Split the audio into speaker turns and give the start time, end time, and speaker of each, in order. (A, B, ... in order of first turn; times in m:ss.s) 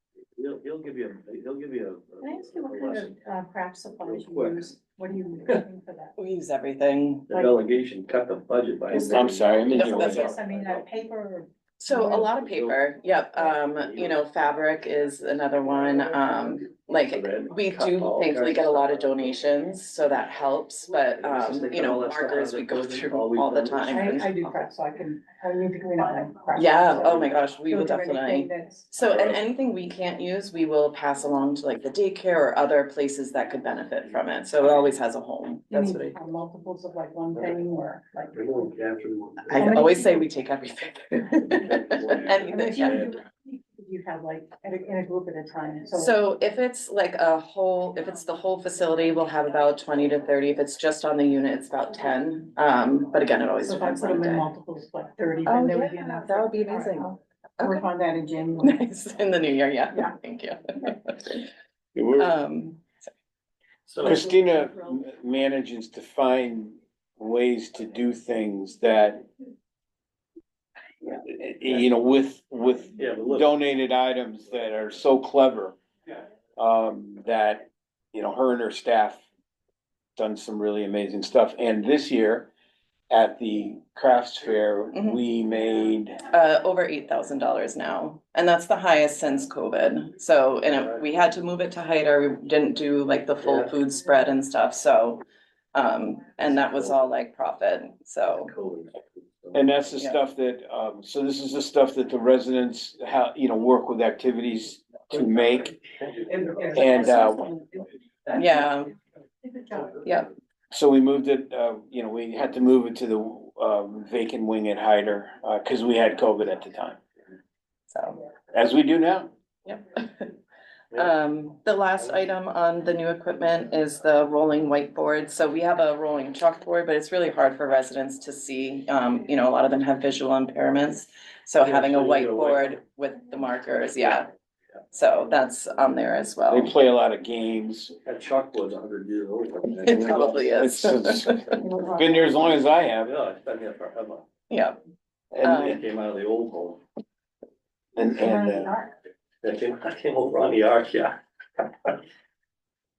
0:00.4-0:03.2 A
0:02.2-0:06.1 B
0:04.0-0:04.8 A
0:06.2-0:07.5 C
0:07.3-0:07.6 B
0:07.3-0:10.9 A
0:08.9-0:10.3 D
0:09.7-0:10.3 C
0:09.8-0:12.3 B
0:11.8-0:24.3 C
0:12.3-0:12.8 A
0:13.4-0:14.2 A
0:15.6-0:19.3 A
0:21.2-0:24.2 A
0:23.9-0:27.1 B
0:26.5-0:36.2 C
0:26.9-0:27.3 A
0:27.6-0:29.1 B
0:35.7-0:38.4 B
0:38.3-0:40.0 A
0:39.5-0:43.1 C
0:39.5-0:40.3 B
0:41.5-0:43.1 A
0:42.5-0:46.1 B
0:45.9-0:54.5 C
0:53.6-0:58.8 B
0:55.4-0:57.9 C
0:58.6-1:01.5 C
1:01.9-1:02.3 D
1:02.2-1:03.1 C
1:03.9-1:04.2 A
1:04.0-1:09.2 D
1:11.0-1:15.8 D
1:13.0-1:13.5 A
1:16.6-1:19.2 D
1:20.2-1:22.5 D
1:23.1-1:26.2 D
1:26.3-1:38.5 C
1:30.7-1:31.0 A
1:33.4-1:33.7 A
1:36.4-1:36.9 A
1:38.3-1:39.9 A
1:39.5-1:45.8 D
1:46.0-1:46.8 A
1:46.4-1:47.8 B
1:46.7-1:47.5 D
1:48.3-1:48.9 C
1:49.6-1:49.9 B
1:50.0-1:50.3 C
1:50.7-1:57.0 D
1:57.9-1:58.2 C
1:58.5-1:59.3 D
1:59.6-2:00.3 C
2:00.9-2:14.3 C
2:11.6-2:12.7 A
2:14.9-2:16.7 C
2:16.5-2:17.9 D
2:18.0-2:20.4 A
2:19.8-2:21.6 C
2:20.0-2:23.1 D
2:21.6-2:22.4 B
2:22.5-2:24.2 A
2:24.5-2:24.8 C
2:25.3-2:25.8 D
2:25.4-2:25.8 C
2:25.5-2:26.8 A
2:28.0-2:28.7 D
2:28.0-2:28.9 B
2:29.4-2:31.9 A